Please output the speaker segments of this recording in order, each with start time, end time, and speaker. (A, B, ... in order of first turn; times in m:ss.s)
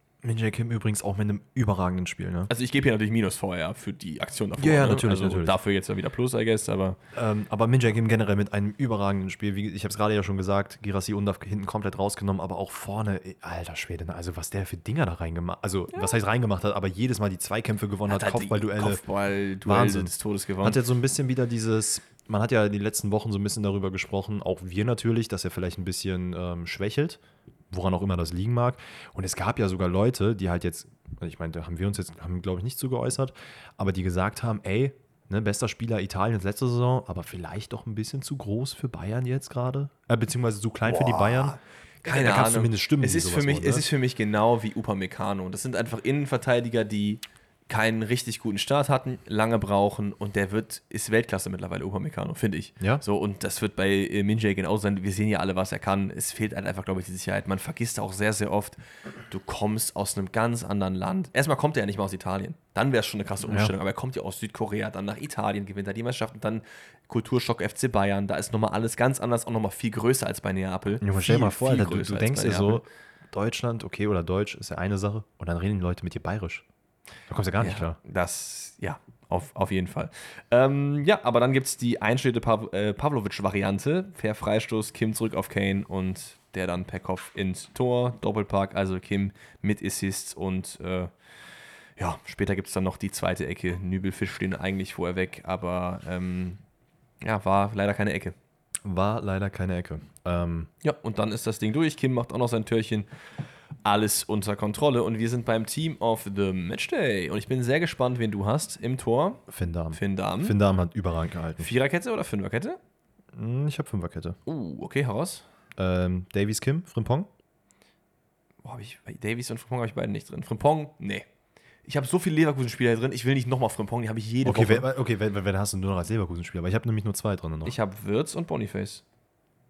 0:00.2-0:02.5 A
0:02.5-0:07.0 B
0:04.6-0:05.6 A
0:07.1-0:19.0 A
0:18.1-0:20.8 B
0:19.6-0:43.8 A
0:40.8-0:58.8 B
0:59.3-1:12.8 B
1:03.4-1:03.7 A
1:11.0-1:16.6 A
1:17.3-1:18.0 A
1:17.6-1:31.1 B
1:32.0-1:36.6 B
1:37.2-1:38.4 B
1:38.8-1:40.7 A
1:40.8-1:43.1 B
1:43.8-1:49.4 B
1:49.5-1:51.7 A
1:49.9-1:50.6 B
1:51.6-1:52.8 B
1:53.3-1:54.4 A
1:54.4-1:55.4 B
1:55.8-1:57.3 A
1:58.6-2:01.3 B
2:01.8-2:04.9 B
2:04.4-2:07.8 A
2:07.6-2:09.0 B